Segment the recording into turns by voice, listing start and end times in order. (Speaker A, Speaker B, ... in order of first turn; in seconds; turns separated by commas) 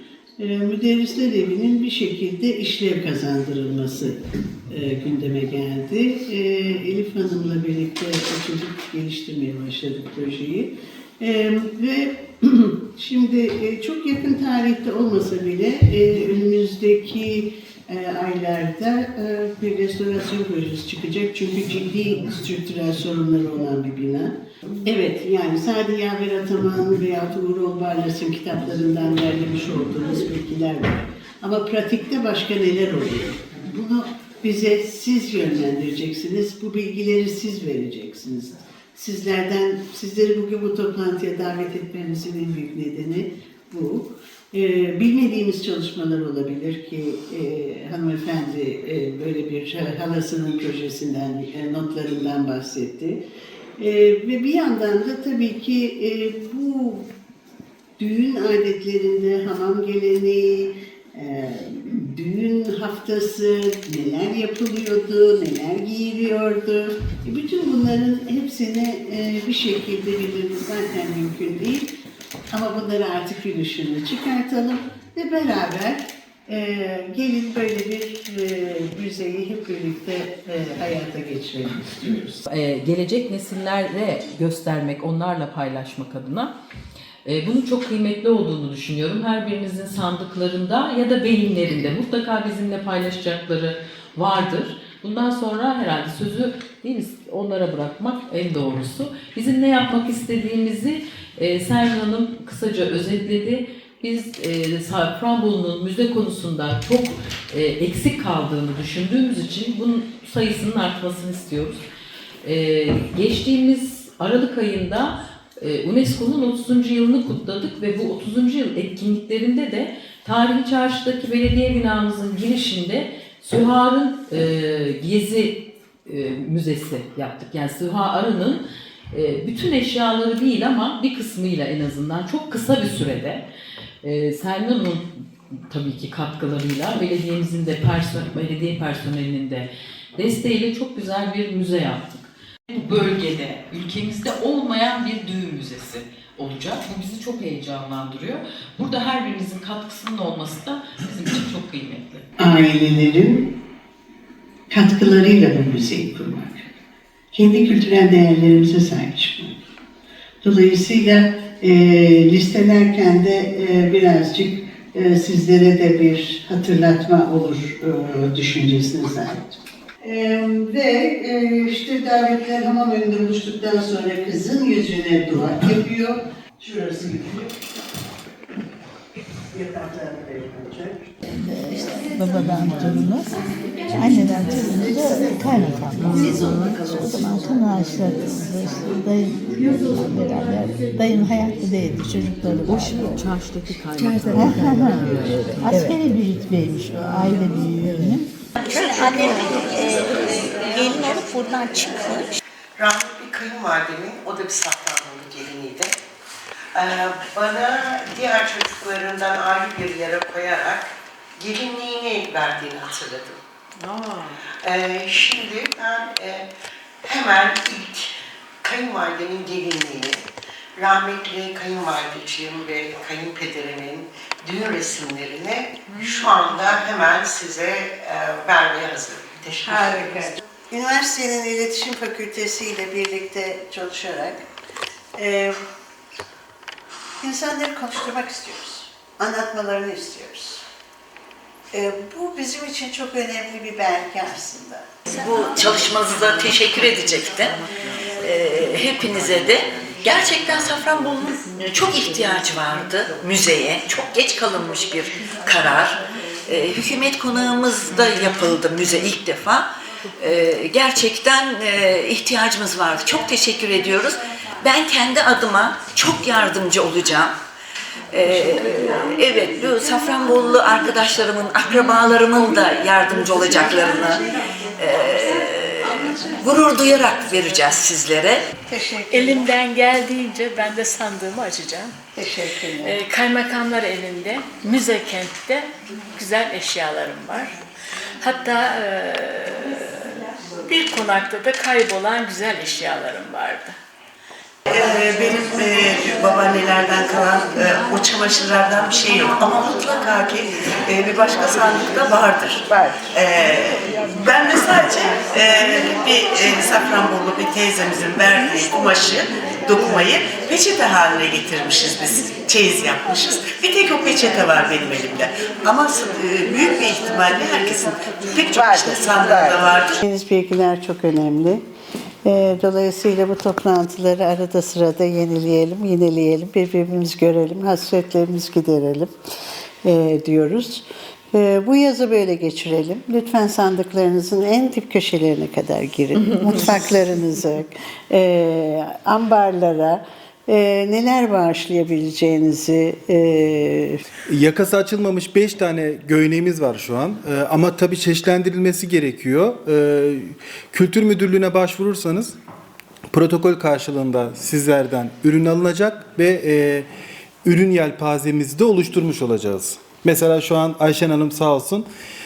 Speaker A: 0.4-4.2, Speaker A: 4.7-24.3, Speaker A: 24.8-53.2, Speaker A: 53.8-57.1, Speaker A: 58.0-71.9, Speaker A: 72.5-82.4, Speaker B: 82.5-86.5, Speaker B: 87.2-111.8, Speaker B: 112.4-133.4, Speaker B: 134.0-135.1, Speaker B: 135.7-152.2, Speaker A: 152.4-153.5, Speaker A: 154.7-156.7, Speaker A: 157.3-159.6, Speaker A: 160.4-177.6, Speaker A: 179.5-181.1, Speaker C: 181.3-183.3, Speaker C: 183.9-193.1, Speaker B: 186.0-186.7, Speaker B: 192.6-196.0, Speaker C: 194.3-195.1, Speaker C: 195.6-198.2, Speaker D: 198.6-202.3, Speaker E: 202.8-205.9, Speaker E: 206.7-213.4, Speaker B: 213.8-214.4, Speaker E: 214.6-216.5, Speaker E: 217.0-218.1, Speaker E: 218.6-220.2, Speaker E: 220.8-230.3, Speaker B: 225.9-226.3, Speaker A: 229.6-234.4, Speaker A: 235.2-235.6, Speaker A: 237.2-240.6, Speaker A: 241.7-244.8, Speaker F: 245.1-247.6, Speaker F: 248.2-259.6, Speaker F: 260.2-267.3, Speaker F: 268.1-274.2, Speaker F: 274.8-278.4, Speaker A: 278.7-279.4, Speaker G: 279.1-282.0, Speaker A: 282.1-283.0, Speaker G: 282.8-287.6, Speaker G: 288.2-293.8, Speaker E: 294.7-320.0, Speaker A: 320.0-321.6, Speaker A: 322.2-329.1, Speaker A: 329.8-344.0, Speaker H: 344.3-352.3, Speaker H: 353.1-356.9, Speaker H: 357.4-361.9